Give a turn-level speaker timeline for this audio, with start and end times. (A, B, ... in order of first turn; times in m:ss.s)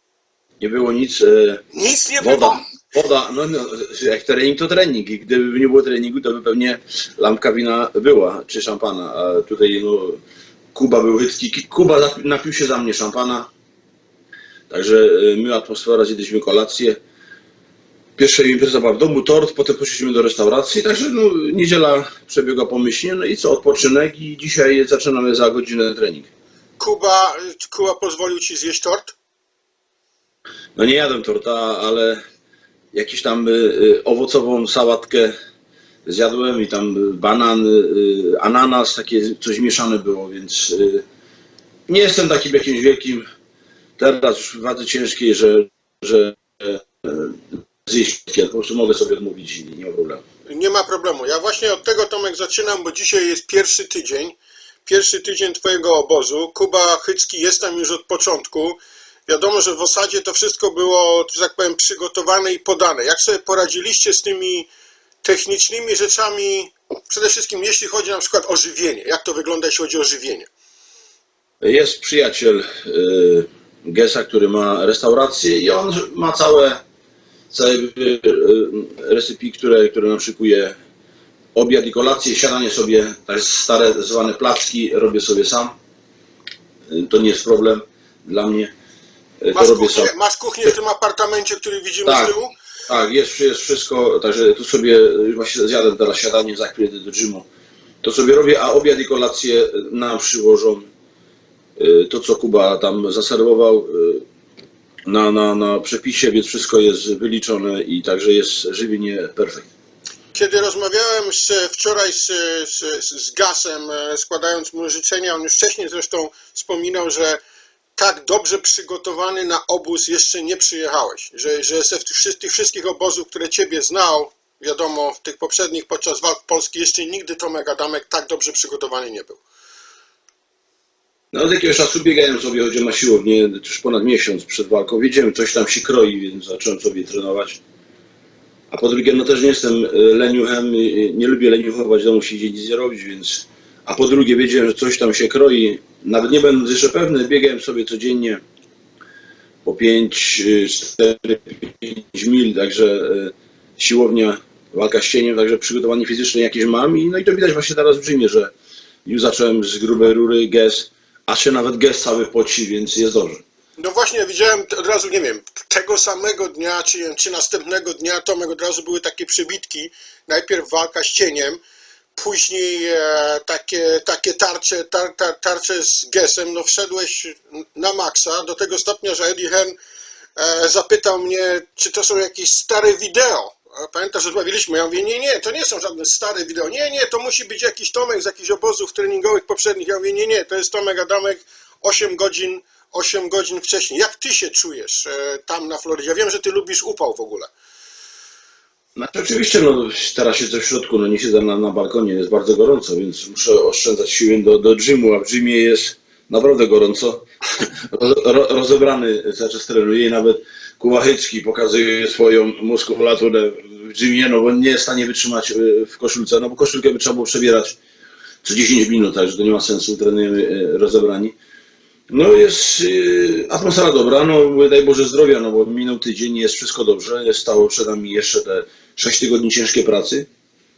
0:00.6-0:01.6 A
0:01.7-0:02.6 B
0:02.2-0:10.2 A
0:10.7-0:13.5 A
0:14.7-0:17.0 A
0:18.2-0:26.3 A
0:26.8-0:29.2 B
0:30.8-0:32.2 A
0:32.9-0:35.3 A
0:36.1-0:41.0 A
0:41.9-0:43.2 A
0:44.0-0:50.2 A
0:50.5-1:04.7 B
1:05.2-1:10.5 B
1:11.6-1:16.8 A
1:17.5-1:20.8 A
1:21.6-1:25.8 A
1:26.9-1:28.7 A
1:29.4-1:30.1 A
1:29.5-1:32.5 B
1:32.0-1:32.3 A
1:32.9-1:37.5 A
1:38.0-1:40.9 A
1:41.8-1:44.2 A
1:45.1-1:49.7 A
1:50.3-1:57.4 B
1:58.0-2:09.4 B
2:11.3-2:17.6 A
2:18.7-2:28.4 A
2:29.6-2:38.5 A
2:39.0-2:43.4 A
2:43.8-2:51.6 B
2:52.2-2:59.8 B
3:00.4-3:17.5 B
3:19.0-3:37.8 A
3:38.4-3:41.4 A
3:42.1-3:50.3 A